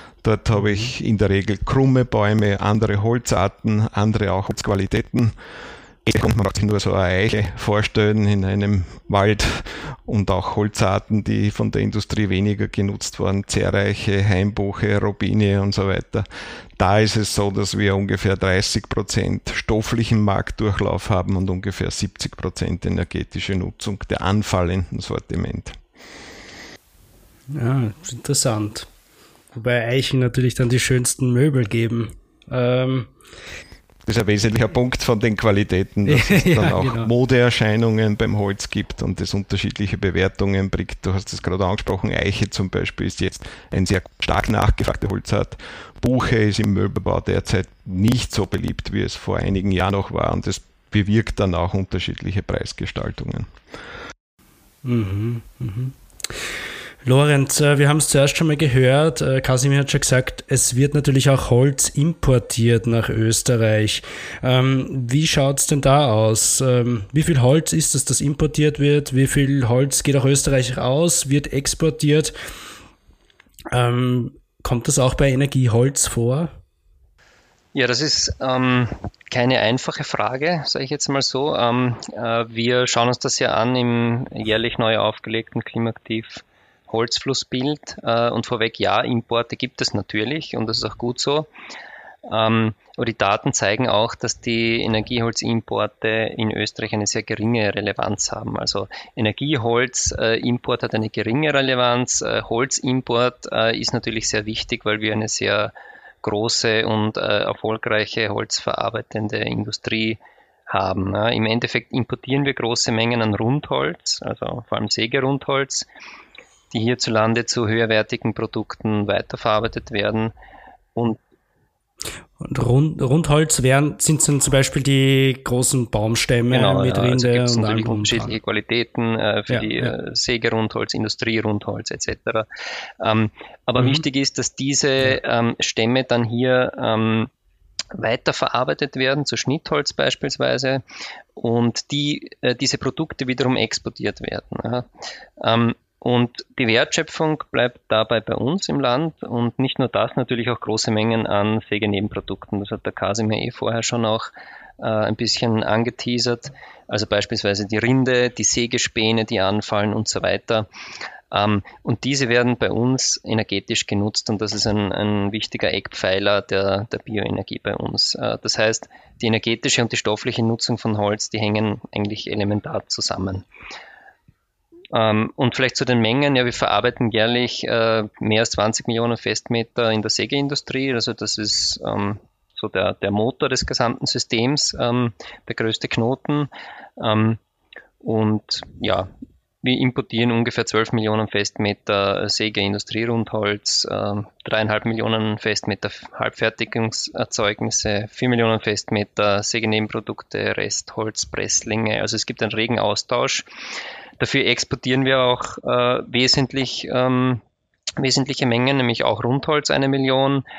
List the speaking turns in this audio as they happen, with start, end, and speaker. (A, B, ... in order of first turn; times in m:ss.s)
0:00.2-0:05.4 A
0:06.0-0:16.3 A
0:16.8-0:25.8 A
0:27.5-0:28.9 B
0:29.5-0:33.1 B
0:34.1-0:53.5 A
0:36.1-0:37.1 B
0:54.8-0:56.0 B
0:57.0-1:12.3 B
1:13.7-1:16.5 B
1:17.7-1:31.5 C
1:32.3-1:55.9 C
1:56.7-2:00.3 C
2:02.4-2:08.4 B
2:06.5-2:12.5 C
2:09.5-2:09.9 B
2:13.0-2:17.3 C
2:18.0-2:20.8 C
2:21.4-2:24.9 C
2:25.4-2:40.7 C
2:41.3-2:53.5 C
2:54.9-3:07.4 C
3:08.0-3:09.1 C
3:09.6-3:23.5 C
3:24.2-3:27.4 C
3:28.0-3:30.4 C